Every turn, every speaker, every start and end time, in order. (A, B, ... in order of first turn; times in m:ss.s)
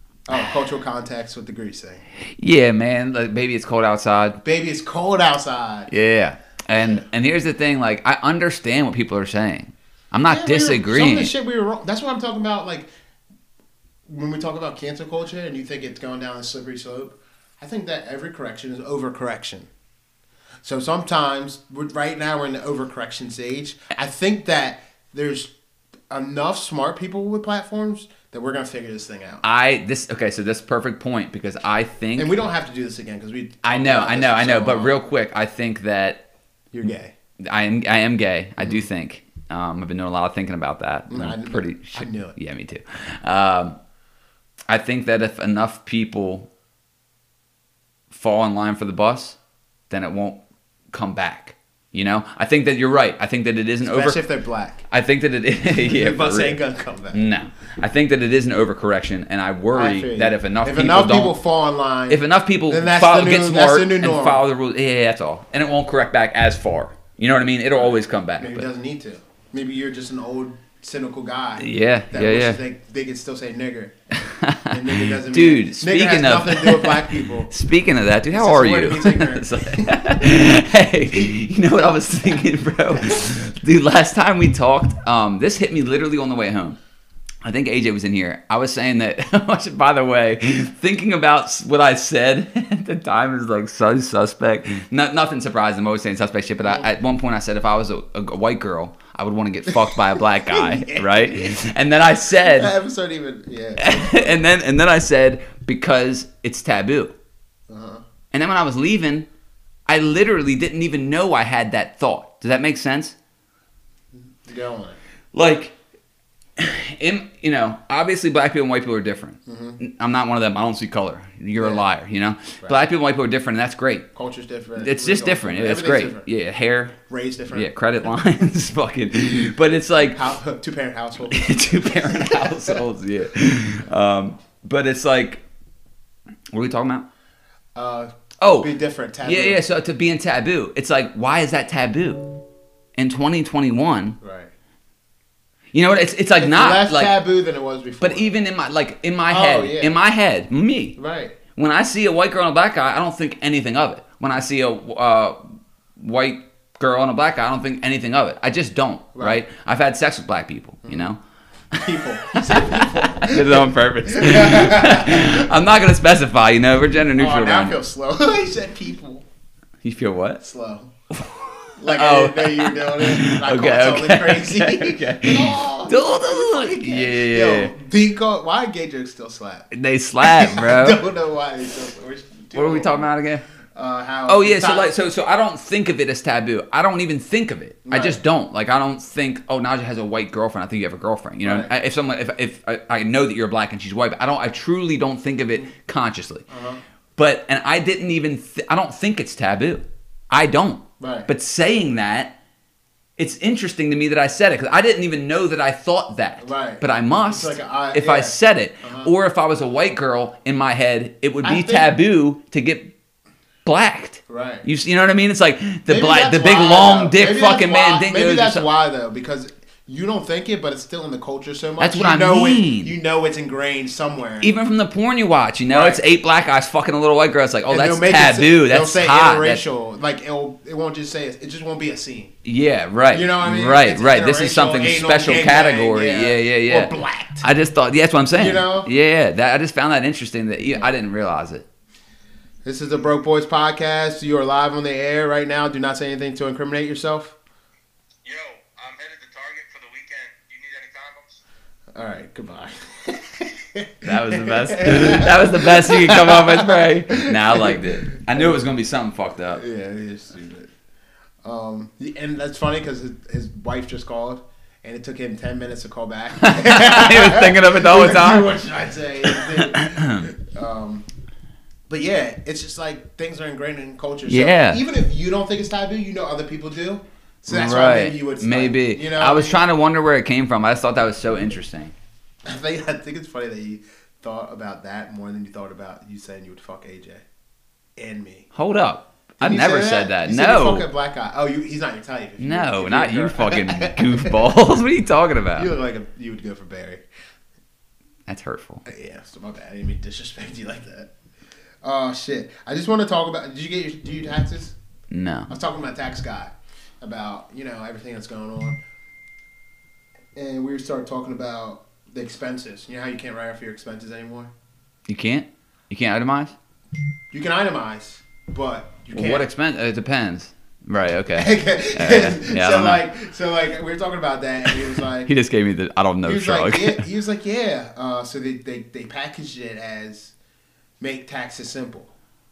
0:00.3-0:02.0 A
0:02.3-0:04.4 B
0:04.4-0:05.9 A
0:05.9-0:11.3 B
0:06.7-0:07.0 A
0:10.3-0:12.9 A
0:14.0-0:19.7 A
0:20.6-0:25.5 A
0:26.1-0:29.4 A
0:29.4-0:32.3 B
0:32.2-0:35.0 A
0:33.6-0:36.2 B
0:36.7-0:37.1 A
0:37.4-0:43.8 B
0:41.1-0:42.4 A
0:44.7-0:46.5 B
0:48.1-0:49.4 B
0:49.9-0:50.4 B
0:50.9-0:54.2 B
0:53.8-0:54.8 A
0:54.9-0:56.6 B
0:55.8-0:57.3 A
0:57.1-1:01.4 B
0:59.7-1:04.4 A
1:02.1-1:08.7 B
1:07.8-1:17.5 A
1:11.6-1:12.6 B
1:14.3-1:26.8 B
1:18.3-1:20.0 A
1:27.4-1:42.7 B
1:39.8-1:41.6 A
1:42.4-1:44.3 A
1:43.8-1:47.1 B
1:47.7-1:48.0 A
1:48.3-1:49.3 B
1:49.9-1:53.1 B
1:54.1-1:55.0 A
1:55.3-1:55.7 B
1:56.6-2:04.1 B
1:59.4-1:59.8 A
2:01.6-2:01.8 A
2:04.1-2:06.3 A
2:04.8-2:07.0 B
2:07.1-2:07.7 A
2:07.5-2:10.2 B
2:10.1-2:12.8 A
2:11.3-2:15.4 B
2:16.5-2:17.0 B
2:17.7-2:19.6 A
2:18.4-2:18.7 B
2:19.2-2:22.3 B
2:23.0-2:24.2 B
2:24.2-2:24.5 A
2:25.7-2:27.1 B
2:26.4-2:28.2 A
2:28.0-2:31.0 B
2:29.3-2:29.9 A
2:31.0-2:31.4 A
2:31.5-2:35.4 B
2:36.0-2:41.2 B
2:39.1-2:39.4 A
2:40.8-2:41.1 A
2:41.7-2:45.5 A
2:41.7-2:47.8 B
2:47.2-2:49.2 A
2:49.8-2:50.4 B
2:50.4-2:50.9 A
2:51.1-2:57.7 B
2:51.8-2:59.7 A
2:59.7-3:01.0 B
3:00.2-3:03.1 A
3:02.5-3:03.4 B
3:03.7-3:04.9 A
3:04.3-3:16.4 B
3:07.8-3:08.2 A
3:11.4-3:11.7 A
3:16.5-3:16.8 A
3:17.2-3:22.3 B
3:21.0-3:21.3 A
3:23.2-3:32.9 B
3:26.4-3:29.1 A
3:31.4-3:31.9 A
3:33.6-3:38.7 B
3:34.3-3:34.6 A
3:35.9-3:44.5 A
3:41.8-3:42.9 B
3:44.4-3:49.6 B
3:45.7-3:46.0 A
3:47.7-3:52.3 A
3:52.4-4:01.6 B
3:53.1-3:57.4 A
3:58.3-3:58.9 A
4:02.6-4:07.4 A
4:08.2-4:11.4 C
4:11.9-4:18.6 A
4:14.0-4:19.6 B
4:19.5-4:20.7 A
4:21.4-4:31.0 A
4:26.4-4:28.6 B
4:29.2-4:30.2 B
4:31.9-4:39.6 A
4:34.3-4:34.8 B
4:37.5-4:41.9 B
4:42.4-4:47.2 A
4:48.0-4:48.5 A
4:48.5-4:50.9 B
4:49.4-4:54.5 A
4:52.4-4:55.7 B
4:55.5-4:57.0 A
4:58.3-4:58.8 B
4:58.8-5:01.1 A
5:01.8-5:04.8 A
5:05.1-5:05.5 B
5:05.5-5:08.8 A
5:10.3-5:14.5 A
5:15.1-5:16.6 B
5:17.3-5:19.5 A
5:19.1-5:23.0 B
5:21.3-5:25.3 A
5:24.7-5:27.0 B
5:26.2-5:30.3 A
5:31.0-5:32.1 A